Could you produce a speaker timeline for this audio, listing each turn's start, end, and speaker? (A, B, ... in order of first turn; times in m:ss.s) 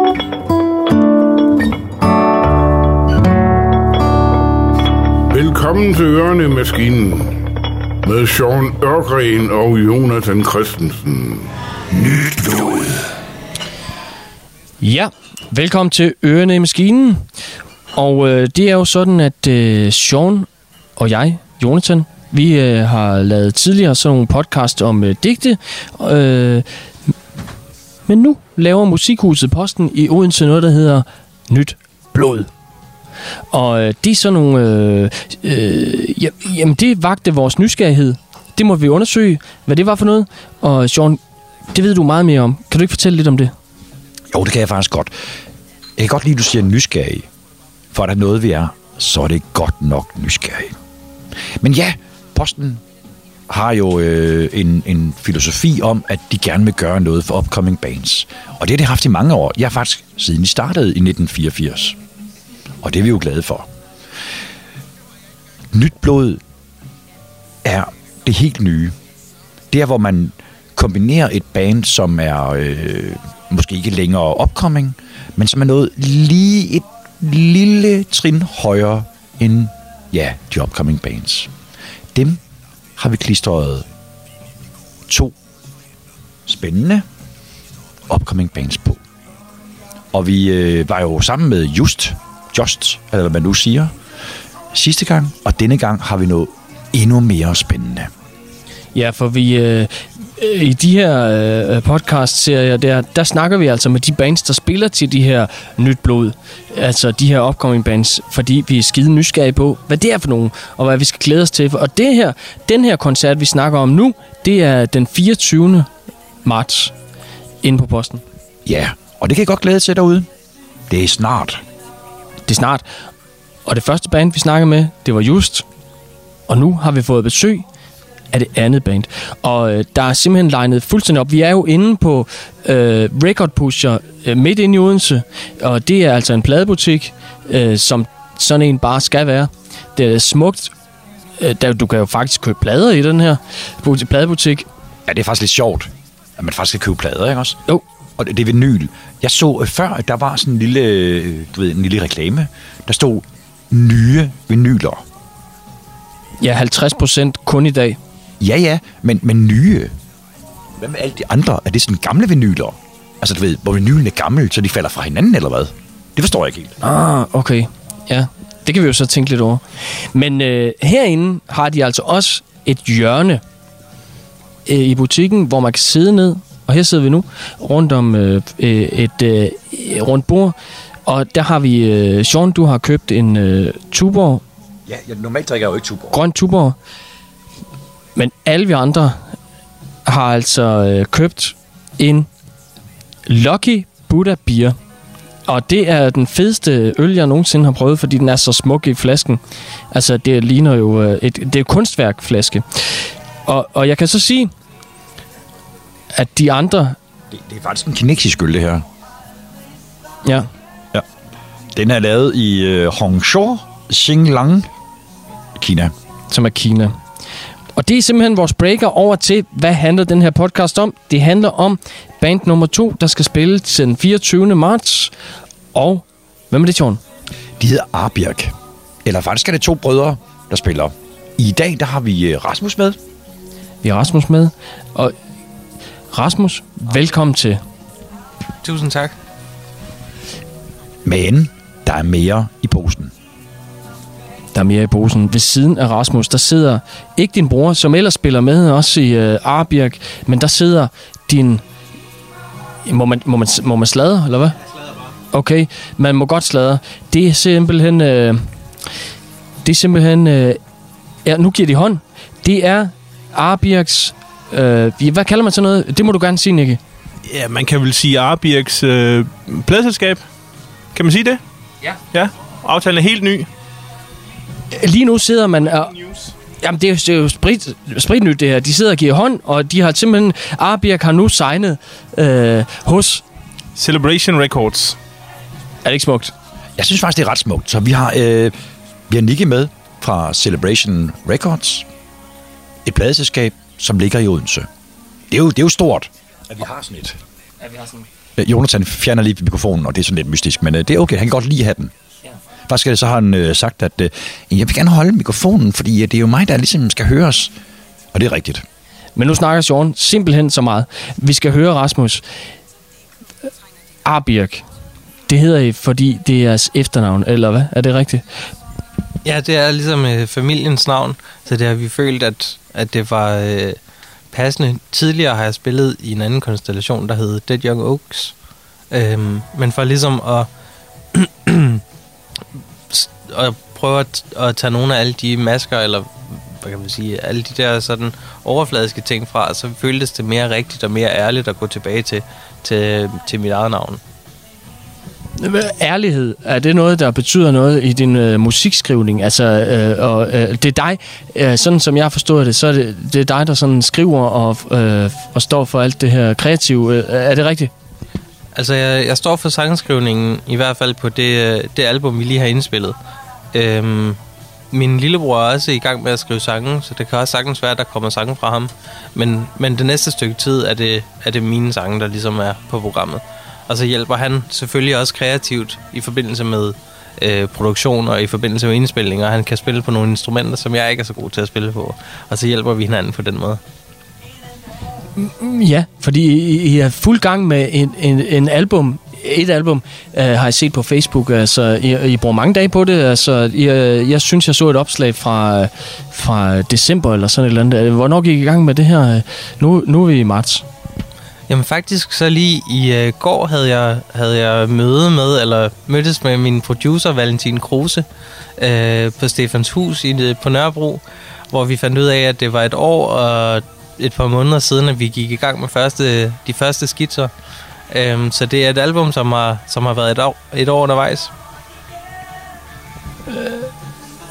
0:05.3-0:07.4 A
0:08.0-0:11.5 A
0:12.0-0:12.8 B
0:14.8-0:17.3 C
0:17.9-0:26.6 C
0:28.1-0:32.5 C
0:33.5-0:41.2 C
0:41.7-0:43.5 C
0:44.3-0:45.1 B
0:46.0-0:47.3 B
0:47.9-0:50.7 B
0:51.6-0:52.8 B
0:53.5-1:02.0 B
1:02.8-1:03.7 B
1:05.7-1:06.4 B
1:07.6-1:08.9 B
1:09.7-1:21.5 B
1:22.1-1:22.4 B
1:23.0-1:23.8 B
1:25.1-1:25.3 B
1:26.4-1:27.0 B
1:28.1-1:29.0 B
1:30.1-1:33.9 B
1:34.7-1:38.1 B
1:38.9-1:55.9 C
1:56.4-1:56.9 C
1:57.6-1:58.2 C
1:58.6-2:00.3 B
2:00.9-2:01.6 B
2:02.5-2:02.9 C
2:03.6-2:05.6 C
2:06.5-2:07.6 C
2:08.3-2:20.7 C
2:21.4-2:24.7 C
2:25.0-2:27.6 B
2:28.2-2:35.0 B
2:36.4-2:38.0 C
2:38.4-2:39.9 B
2:40.8-2:46.7 B
2:46.8-2:53.4 C
2:54.6-3:00.5 C
3:01.0-3:04.4 C
3:04.9-3:06.2 B
3:06.1-3:06.8 C
3:08.1-3:09.2 C
3:10.0-3:12.3 C
3:13.3-3:14.7 C
3:15.4-3:19.4 C
3:19.9-3:24.5 C
3:26.1-3:27.0 C
3:27.3-3:28.8 B
3:31.7-3:34.7 B
3:35.6-3:35.9 B
3:36.3-3:37.0 C
3:37.8-3:45.1 C
3:45.7-3:47.0 C
3:47.6-3:48.5 B
3:49.0-3:53.0 B
3:53.8-3:55.1 C
3:56.1-3:57.6 C
3:58.6-3:59.1 D
4:01.0-4:03.1 B
4:04.5-4:11.6 C
4:12.8-4:14.6 C
4:15.3-4:18.5 C
4:19.6-4:20.6 C
4:21.2-4:26.8 C
4:27.2-4:30.2 E
4:30.9-4:31.4 E
4:32.1-4:33.5 E
4:34.7-4:43.2 C
4:43.7-4:45.0 E
4:45.8-4:46.3 C
4:46.8-4:48.5 B
4:49.1-4:51.9 B
4:52.8-4:54.7 B
4:55.3-4:57.2 B
4:58.4-5:01.9 B
5:02.7-5:07.5 B
5:08.1-5:08.6 B
5:09.2-5:12.2 C
5:14.0-5:14.6 C
5:15.3-5:18.2 C
5:19.2-5:23.8 D
5:24.3-5:28.3 D
5:28.9-5:30.5 D
5:31.1-5:31.8 D
5:32.9-5:44.0 D
5:45.4-5:57.7 C
5:58.5-6:03.0 D
6:03.5-6:04.2 D
6:04.7-6:23.6 D
6:25.2-6:40.6 C
6:41.5-6:48.0 D
6:48.6-6:57.3 D
6:57.9-7:01.3 D
7:03.3-7:03.7 C